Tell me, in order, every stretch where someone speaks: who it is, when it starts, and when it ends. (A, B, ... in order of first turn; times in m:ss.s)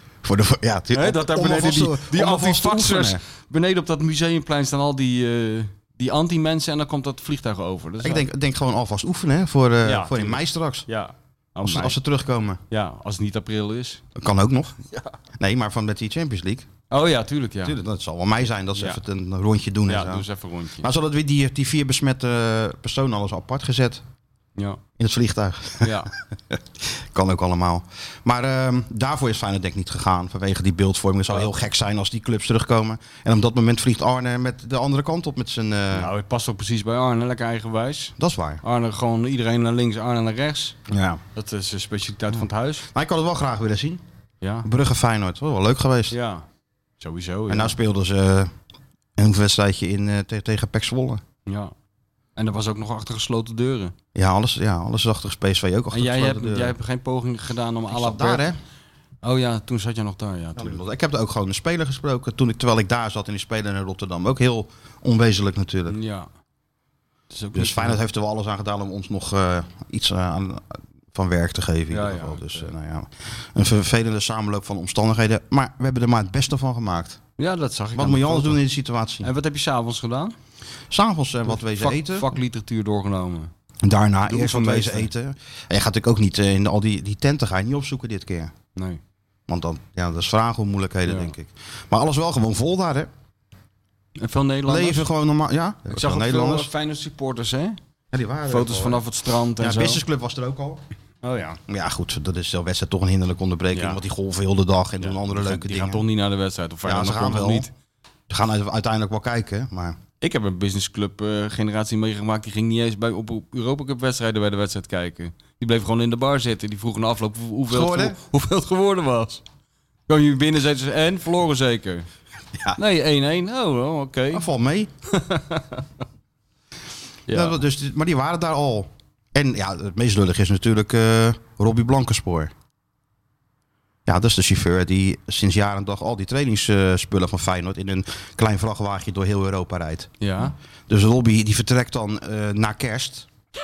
0:00.2-0:03.2 A
0:00.9-0:08.2 B
0:08.0-0:10.8 A
0:09.8-0:12.0 B
0:11.6-0:12.6 A
0:12.7-0:14.0 B
0:14.2-0:14.8 A
0:15.4-0:16.7 A
0:16.9-0:17.8 B
0:17.6-0:20.2 A
0:19.9-0:20.9 B
0:20.8-0:24.0 A
0:25.0-0:36.1 A
0:25.8-0:26.1 B
0:35.9-0:40.7 B
0:38.2-0:38.6 A
0:40.9-0:41.2 A
0:41.4-0:42.9 B
0:42.3-0:44.0 A
0:44.4-0:44.7 B
0:44.6-0:46.2 A
0:46.1-0:46.4 B
0:47.0-0:47.8 B
0:47.5-0:48.5 A
0:49.2-0:51.2 A
0:51.4-0:51.7 B
0:52.4-0:53.9 B
0:54.1-0:56.7 A
0:55.9-0:58.4 B
0:57.9-0:58.6 A
0:59.2-1:00.8 B
1:00.6-1:06.0 A
1:05.9-1:06.3 B
1:07.3-1:08.0 B
1:07.5-1:17.2 A
1:11.9-1:12.7 B
1:17.4-1:18.6 B
1:17.9-1:19.3 A
1:19.2-1:20.3 B
1:20.9-1:22.4 A
1:21.5-1:23.5 B
1:23.8-1:28.5 A
1:24.2-1:25.1 B
1:29.5-1:33.1 A
1:31.0-1:31.3 B
1:34.2-1:35.0 B
1:34.6-1:36.7 A
1:35.9-1:37.8 B
1:38.1-1:39.0 A
1:38.5-1:40.0 B
1:39.5-1:40.8 A
1:41.2-1:41.6 B
1:41.7-1:46.0 A
1:43.7-1:44.0 B
1:45.0-1:47.7 B
1:46.8-1:47.7 A
1:48.3-1:50.0 A
1:50.2-1:59.4 B
1:57.7-1:58.2 A
2:00.1-2:02.1 B
2:02.8-2:04.4 B
2:04.3-2:04.9 A
2:05.1-2:05.8 B
2:07.3-2:07.6 B
2:07.3-2:12.5 A
2:14.0-2:20.1 A
2:20.2-2:20.5 B
2:20.9-2:23.3 A